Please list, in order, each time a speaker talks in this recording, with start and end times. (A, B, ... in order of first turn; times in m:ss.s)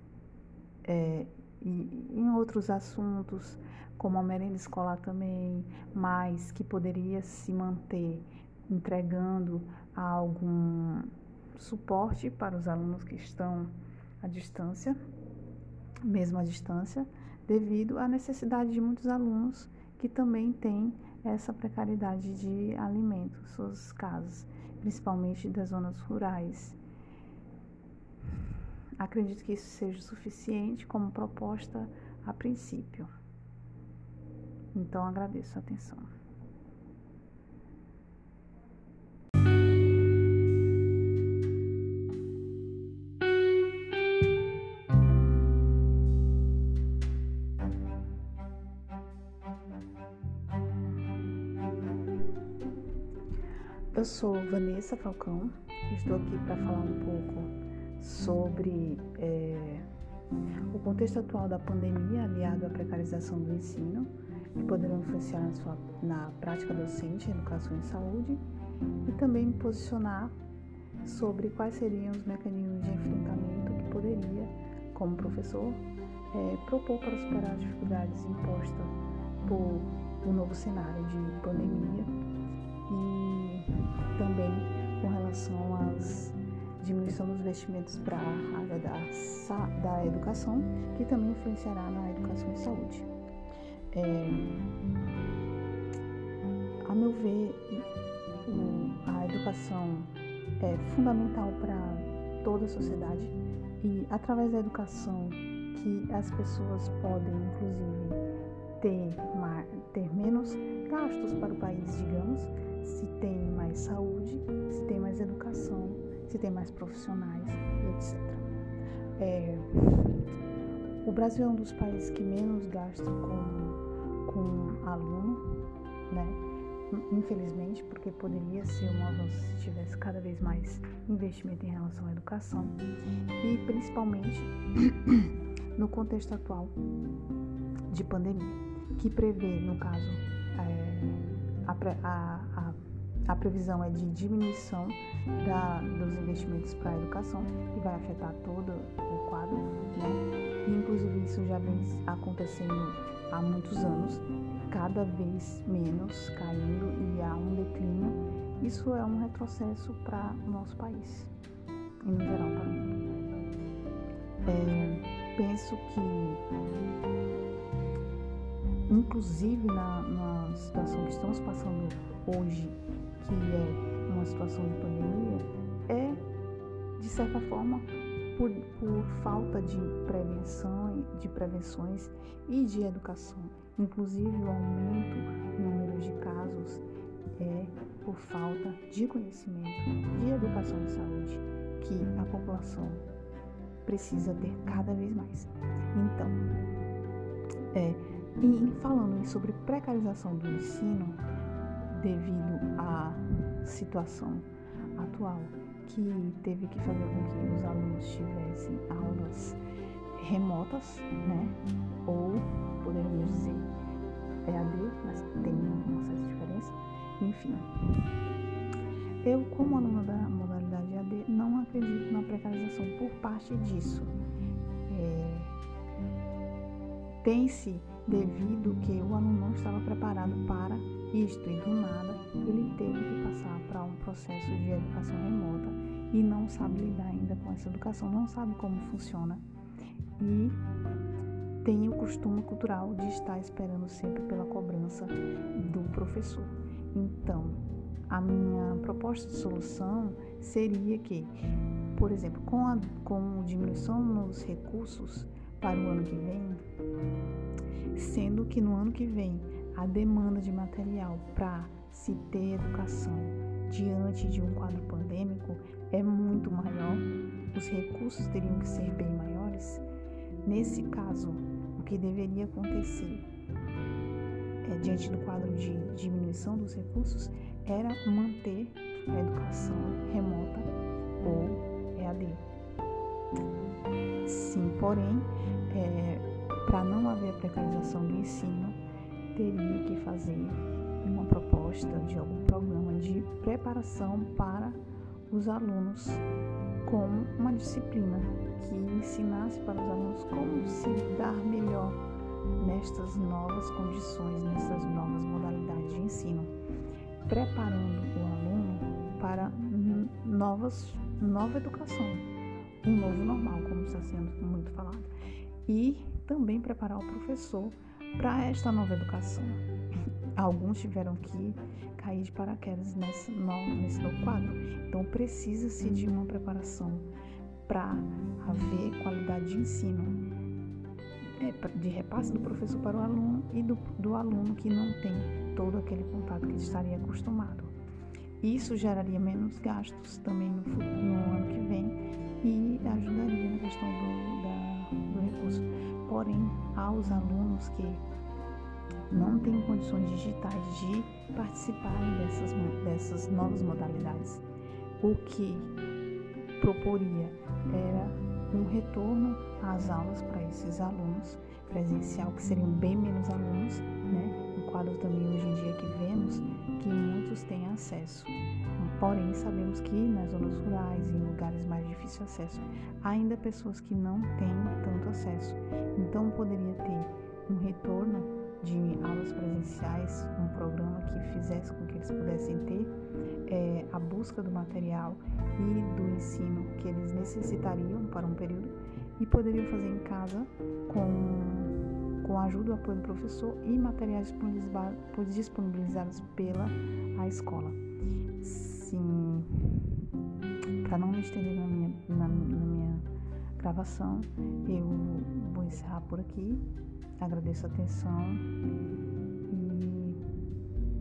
0:00.8-0:13.7 A
0:14.2-0:15.0 A
0:16.0-0:26.8 A
0:29.0-0:33.1 A
0:34.7-0:36.1 A
0:53.9-0:59.8 A
1:00.7-1:08.4 A
1:09.0-1:10.3 A
1:11.0-1:22.1 A
1:22.9-1:33.1 A
1:33.9-1:34.6 A
1:36.8-1:37.8 A
1:38.4-1:48.2 A
1:48.8-1:58.4 A
1:59.2-2:00.2 A
2:01.0-2:12.8 A
2:13.4-2:16.8 A
2:17.9-2:41.3 A
2:42.0-2:43.1 A
2:44.4-2:46.4 A
2:48.9-2:56.2 A
2:57.0-3:06.8 A
3:07.4-3:13.0 A
3:13.8-3:16.4 A
3:17.7-3:21.2 A
3:21.9-3:29.6 A
3:30.2-3:33.7 A
3:34.4-3:38.0 A
3:39.2-3:44.2 A
3:44.9-3:45.6 A
3:47.2-3:59.4 A
4:00.2-4:00.6 A
4:01.6-4:11.3 A
4:11.9-4:16.6 A
4:17.9-4:29.8 A
4:30.4-4:33.3 A
4:34.6-4:40.7 A
4:41.2-4:42.4 A
4:44.2-4:48.8 A
4:49.3-4:56.2 A
4:56.8-5:02.0 A
5:02.6-5:06.5 A
5:07.3-5:12.3 A
5:12.8-5:15.1 A
5:15.6-5:19.6 A
5:20.3-5:27.1 A
5:27.7-5:30.2 A
5:31.2-5:37.7 A
5:38.4-5:48.0 A
5:49.1-5:54.4 A
5:55.0-5:55.7 A
5:56.6-6:22.9 A
6:23.5-6:37.8 A
6:38.4-6:40.0 A
6:40.8-6:43.0 A
6:43.6-6:46.6 A
6:47.2-6:48.4 A
6:49.5-6:50.2 A